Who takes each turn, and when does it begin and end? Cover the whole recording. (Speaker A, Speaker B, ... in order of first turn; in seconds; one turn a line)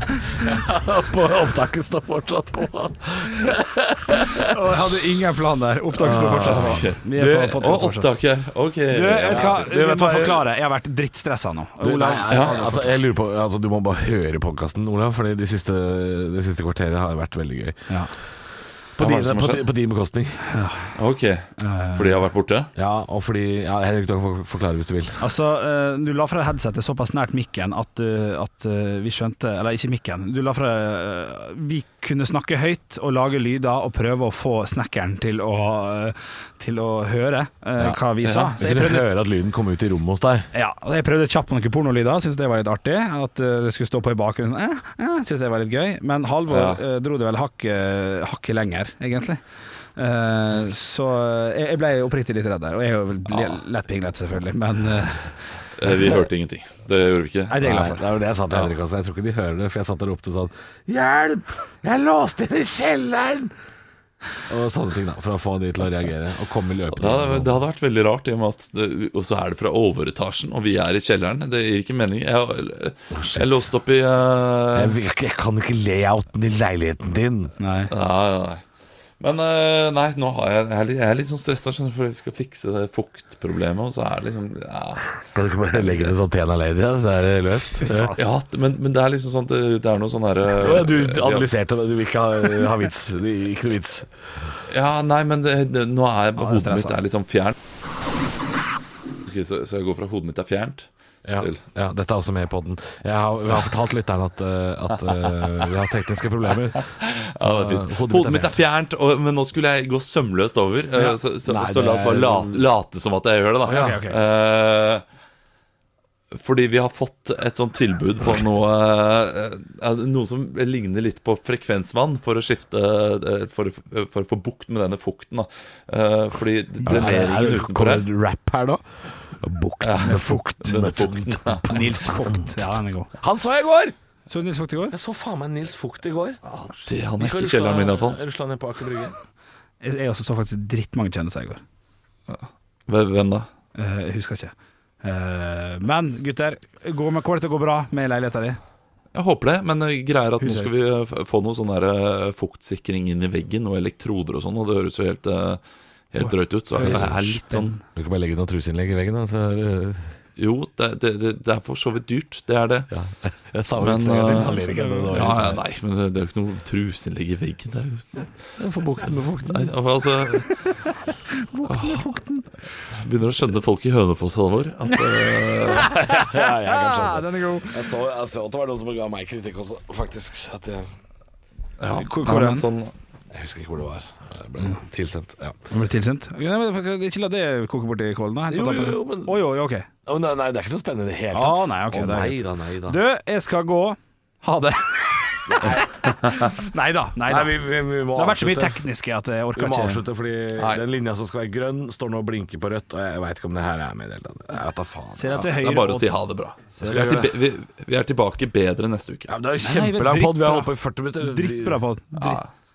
Speaker A: 0.4-4.6
Speaker B: 4.3-8.1
Speaker A: 5.9-7.7
Speaker C: 6.4-7.0
Speaker C: 7.6-9.6
Speaker B: 8.9-12.3
Speaker A: 9.2-10.5
Speaker A: 11.8-17.9
Speaker C: 12.3-12.7
Speaker A: 19.0-20.4
Speaker C: 19.0-19.6
Speaker B: 20.5-20.9
Speaker C: 20.9-22.7
Speaker B: 21.6-22.2
Speaker A: 22.8-25.2
Speaker B: 25.2-39.1
Speaker C: 38.2-38.5
Speaker A: 38.6-40.5
Speaker B: 40.5-49.4
Speaker C: 46.5-46.8
Speaker B: 50.0-56.2
Speaker C: 55.8-57.6
Speaker B: 57.5-58.0
Speaker A: 57.6-63.5
Speaker A: 64.5-67.6
Speaker C: 66.9-75.0
Speaker A: 73.1-73.7
Speaker A: 74.7-77.5
Speaker B: 77.6-77.9
Speaker C: 77.9-78.6
Speaker C: 79.2-86.1
Speaker A: 85.3-88.1
Speaker B: 87.8-88.2
Speaker C: 88.1-91.5
Speaker A: 90.5-94.1
Speaker C: 94.7-97.5
Speaker B: 96.4-97.0
Speaker C: 99.2-100.9
Speaker A: 101.2-108.6
Speaker C: 106.9-115.0
Speaker A: 111.4-112.7
Speaker B: 113.7-114.2
Speaker C: 116.3-128.1
Speaker A: 126.8-133.9
Speaker B: 126.8-127.6
Speaker C: 129.8-131.9
Speaker B: 131.7-133.1
Speaker B: 134.3-134.9
Speaker A: 134.9-136.4
Speaker C: 136.4-138.2
Speaker A: 137.2-139.2
Speaker B: 139.8-141.6
Speaker C: 142.3-143.5
Speaker B: 143.7-148.6
Speaker C: 149.1-155.6
Speaker B: 150.4-150.7
Speaker C: 156.1-157.8
Speaker B: 156.2-157.8
Speaker A: 156.8-157.2
Speaker A: 157.9-160.1
Speaker C: 160.4-162.9
Speaker A: 162.9-165.6
Speaker C: 163.8-168.5
Speaker B: 164.4-165.3
Speaker A: 168.6-169.7
Speaker C: 169.5-170.8
Speaker C: 171.6-172.2
Speaker A: 171.7-172.1
Speaker C: 172.9-175.9
Speaker B: 175.6-177.9
Speaker A: 175.7-180.9
Speaker C: 181.8-182.9
Speaker B: 181.9-182.7
Speaker A: 183.3-185.6
Speaker B: 185.7-189.9
Speaker A: 188.5-189.4
Speaker A: 190.1-193.0
Speaker B: 191.3-197.5
Speaker A: 195.5-195.9
Speaker A: 197.2-198.8
Speaker B: 198.1-200.0
Speaker A: 199.5-205.5
Speaker C: 200.6-200.8
Speaker B: 205.1-206.1
Speaker C: 205.3-209.3
Speaker A: 206.8-207.3
Speaker A: 209.3-211.8
Speaker B: 209.6-212.4